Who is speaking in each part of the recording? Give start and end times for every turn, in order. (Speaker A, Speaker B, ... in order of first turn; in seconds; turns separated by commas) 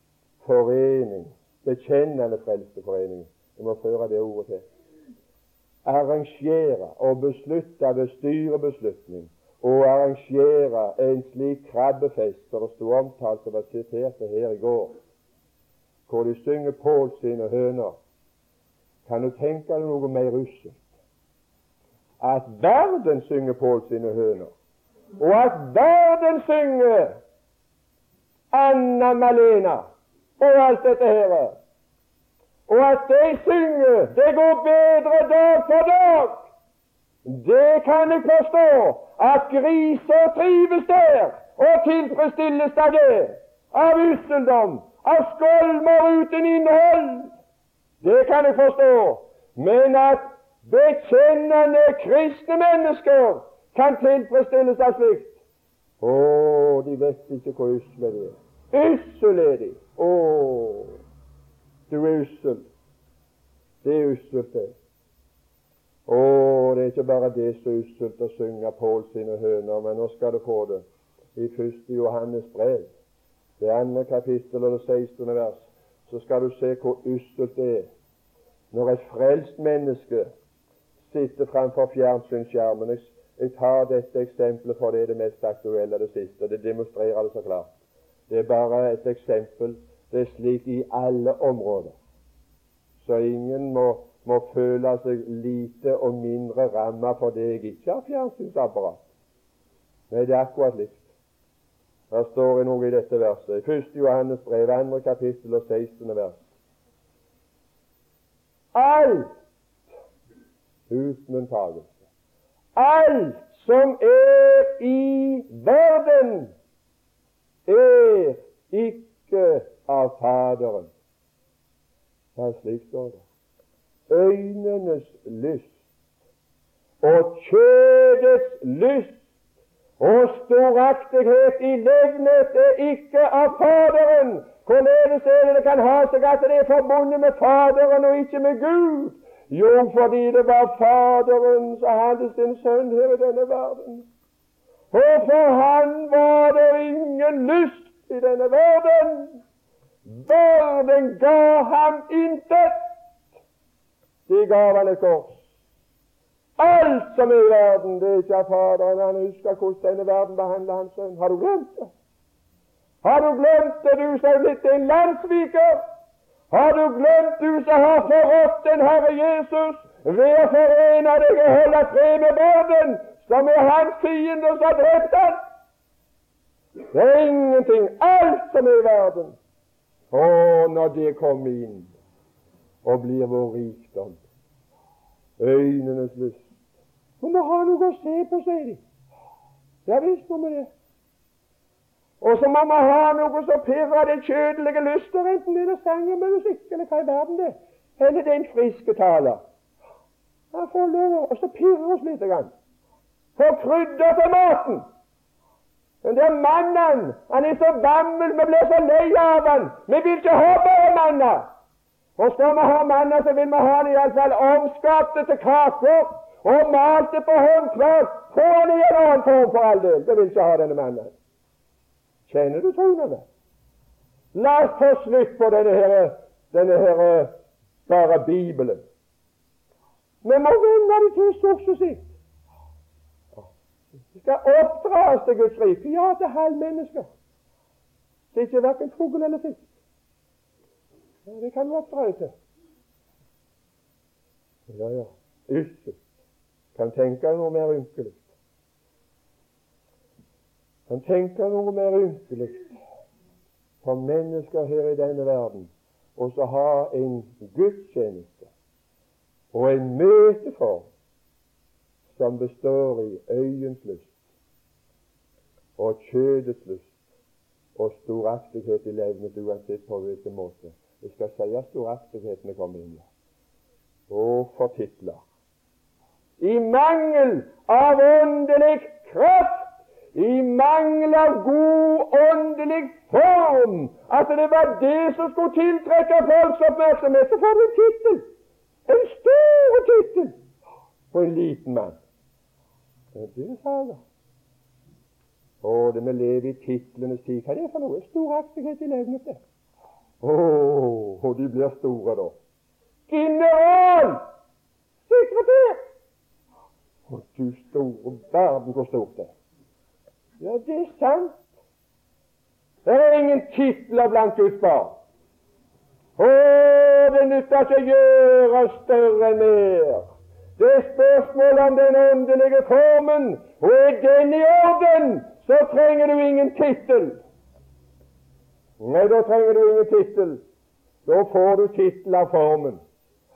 Speaker A: 0.4-4.7, Speaker A: 5.8-15.0, Speaker A: 16.1-18.0, Speaker A: 19.1-20.8, Speaker A: 22.2-24.5, Speaker A: 25.2-27.2, Speaker A: 28.5-31.6, Speaker A: 32.7-36.5, Speaker A: 37.2-47.3, Speaker A: 48.0-55.4, Speaker A: 56.0-61.0, Speaker A: 61.9-62.7, Speaker A: 63.8-64.8, Speaker A: 66.1-70.8, Speaker A: 71.4-72.9, Speaker A: 73.6-77.9, Speaker A: 78.7-80.3, Speaker A: 81.0-87.7, Speaker A: 88.3-92.0, Speaker A: 93.0-99.0, Speaker A: 100.1-101.0, Speaker A: 102.1-106.5, Speaker A: 108.7-109.3, Speaker A: 110.9-111.9, Speaker A: 112.8-116.5, Speaker A: 117.7-120.9, Speaker A: 122.4-123.2, Speaker A: 124.1-125.7, Speaker A: 127.0-129.2, Speaker A: 130.0-144.1, Speaker A: 144.9-149.4, Speaker A: 150.1-152.8, Speaker A: 154.3-155.4, Speaker A: 156.6-161.9, Speaker A: 163.0-165.8, Speaker A: 166.5-175.4, Speaker A: 176.9-179.4, Speaker A: 180.1-181.9, Speaker A: 182.8-184.2, Speaker A: 185.4-186.4, Speaker A: 187.2-188.8, Speaker A: 189.9-190.7, Speaker A: 192.2-199.4, Speaker A: 200.5-202.5, Speaker A: 203.4-204.8, Speaker A: 206.0-211.5, Speaker A: 212.2-221.2, Speaker A: 222.3-223.3, Speaker A: 224.3-227.3, Speaker A: 227.9-228.8, Speaker A: 230.2-232.1, Speaker A: 234.1-237.1, Speaker A: 238.3-239.7, Speaker A: 241.3-242.3, Speaker A: 244.7-246.0, Speaker A: 246.8-248.3, Speaker A: 250.9-252.7, Speaker A: 253.8-258.5, Speaker A: 259.5-260.9, Speaker A: 262.1-264.1, Speaker A: 265.8-266.9, Speaker A: 267.8-273.1, Speaker A: 274.1-275.2, Speaker A: 276.4-288.3, Speaker A: 288.9-290.4, Speaker A: 291.1-292.0, Speaker A: 293.1-294.0, Speaker A: 295.6-299.4, Speaker A: 300.2-302.4, Speaker A: 303.1-304.2, Speaker A: 305.1-305.8, Speaker A: 307.1-309.3, Speaker A: 310.4-311.4, Speaker A: 312.9-315.0, Speaker A: 316.2-320.1, Speaker A: 320.6-327.2, Speaker A: 328.8-330.4, Speaker A: 331.1-332.8